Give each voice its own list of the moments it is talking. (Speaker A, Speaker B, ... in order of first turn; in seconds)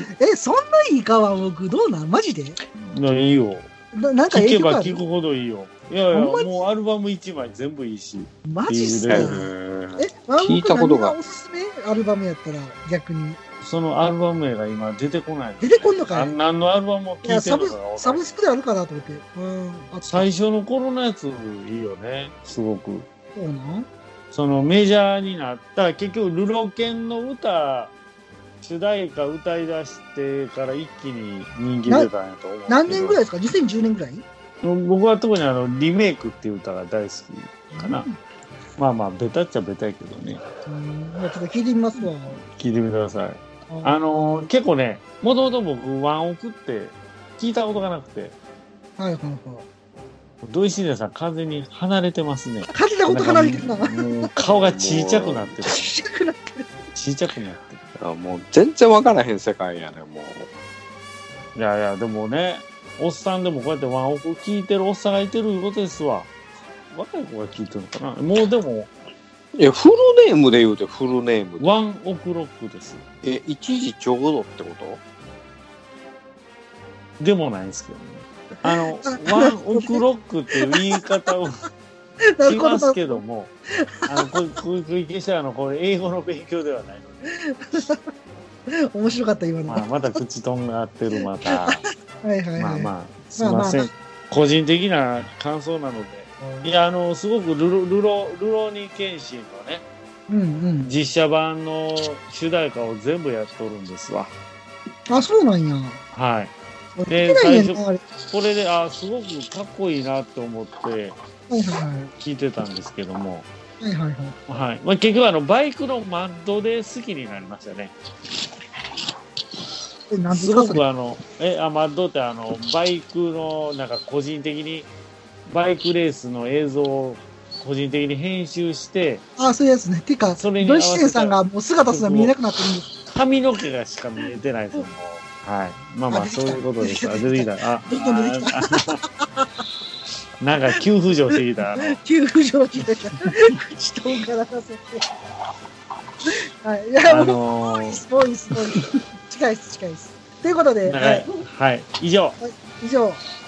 Speaker A: 0.2-2.6, 3.9-5.0, 6.1-6.5, 8.5-9.4, 10.0-13.4, 15.6-16.4, 17.2-20.3, 23.4-23.9, 32.7-34.2, 37.7-38.2, 40.7-42.4, 43.7-44.5, 49.0-49.7, 52.7-54.3, 55.7-56.7, 78.7-80.0, 80.6-81.0, 82.2-84.3, 87.3-88.1, 88.7-90.2, 91.5-93.9, 96.4-96.7, 100.3-100.9, 105.1-106.0, 107.0-108.0, 111.5-112.1, 113.8-114.4, 120.1-120.8, 129.4-132.9, 136.1-139.5, 141.8-145.0, 146.3-151.3, 152.4-153.2
Speaker B: 2.9-3.7, 4.3-9.4, 13.6-18.2, 20.1-23.1, 24.3-27.9, 28.6-33.2, 34.6-38.1, 38.8-40.4, 42.0-48.4, 50.4-56.0, 56.9-58.0, 61.5-66.3, 66.9-68.9, 71.6-73.0, 77.2-81.7, 82.4-83.5, 84.1-87.2, 89.7-91.9, 92.6-99.8, 100.8-104.3, 106.1-106.5, 107.1-111.2, 112.2-113.5, 114.5-117.9, 120.3-124.9, 125.5-129.2, 130.3-132.4, 132.9-139.0, 140.4-142.0, 147.1-148.0, 150.9-152.4
Speaker C: 9.1-11.2, 54.4-55.6, 58.0-60.5, 69.6-71.7, 73.2-75.0